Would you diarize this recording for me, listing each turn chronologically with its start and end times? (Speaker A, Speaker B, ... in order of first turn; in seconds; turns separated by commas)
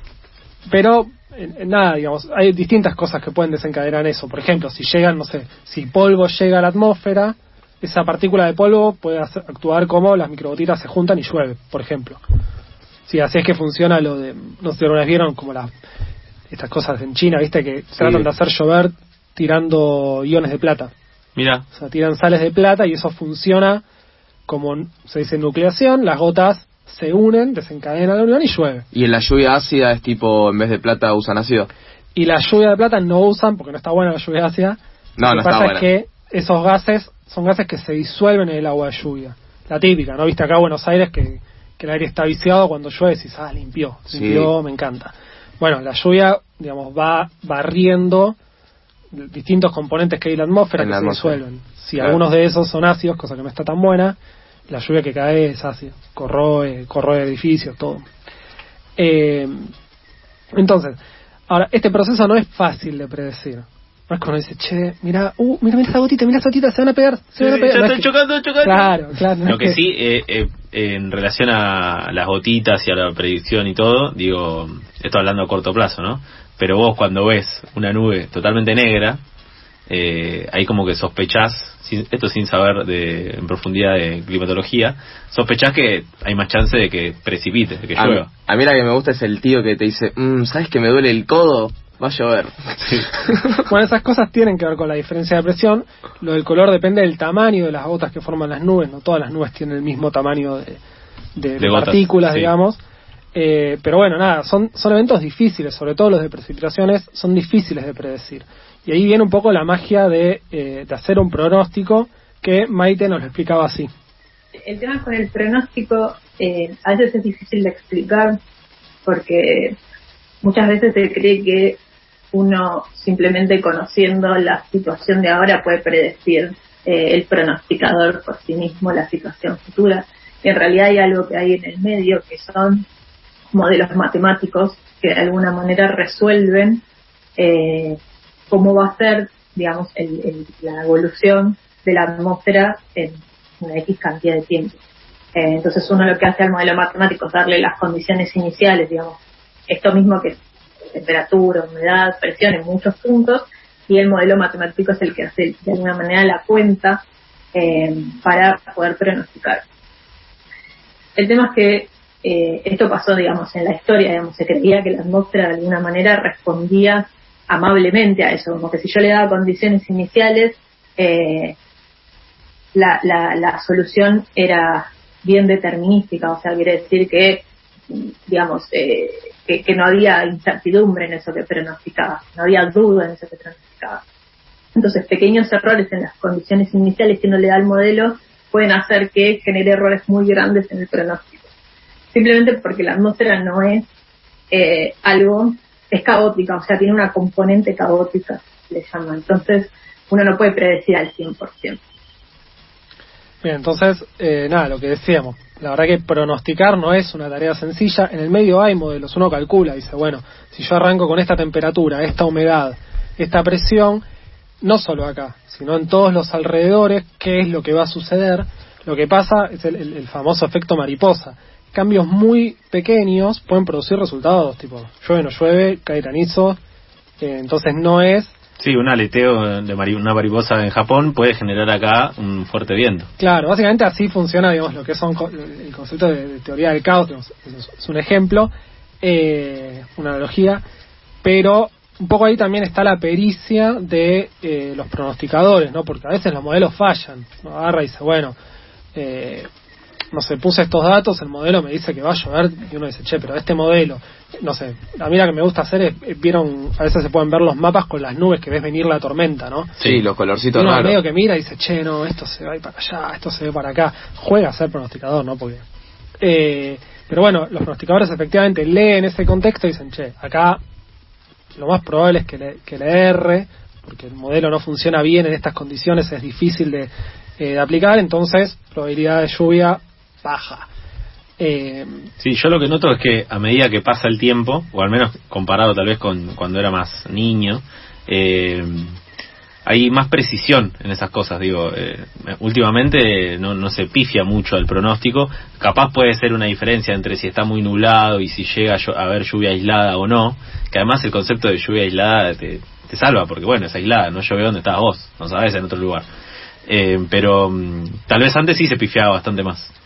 Speaker A: 0.7-12.2, Speaker A: 13.1-15.7, Speaker A: 16.5-20.9, Speaker B: 21.4-21.6, Speaker A: 21.7-23.8, Speaker A: 24.5-28.9, Speaker C: 28.9-31.7, Speaker A: 32.1-48.4, Speaker C: 35.2-35.9, Speaker C: 44.1-44.5, Speaker A: 49.1-54.2, Speaker C: 50.8-51.4, Speaker A: 54.7-58.0, Speaker A: 59.0-59.7, Speaker A: 60.5-61.0, Speaker A: 61.5-68.1, Speaker B: 67.4-79.2, Speaker A: 68.6-69.8, Speaker B: 79.9-88.3, Speaker C: 88.0-93.3, Speaker B: 92.8-93.1, Speaker A: 93.6-100.8, Speaker A: 101.4-102.8, Speaker B: 101.6-102.5, Speaker A: 103.3-113.9, Speaker D: 114.6-118.4, Speaker D: 119.0-119.8, Speaker D: 120.4-121.8, Speaker D: 122.3-132.8, Speaker D: 133.5-136.8, Speaker D: 137.4-144.8, Speaker D: 145.3-150.4, Speaker D: 150.9-157.0, Speaker D: 157.5-159.6, Speaker D: 161.2-171.6, Speaker D: 172.7-184.0, Speaker D: 184.7-191.5, Speaker D: 192.1-193.8, Speaker D: 194.5-201.8, Speaker A: 203.4-214.0, Speaker A: 214.6-226.6, Speaker A: 227.2-228.3, Speaker B: 228.6-233.1, Speaker A: 233.2-238.5, Speaker A: 239.0-240.6, Speaker A: 241.2-248.3, Speaker A: 248.9-249.5, Speaker A: 250.1-259.7, Speaker C: 259.8-261.0, Speaker A: 260.5-265.6, Speaker A: 266.2-270.6, Speaker A: 271.6-280.7, Speaker A: 281.4-282.1, Speaker B: 282.2-289.0, Speaker B: 289.6-306.0, Speaker B: 306.7-309.7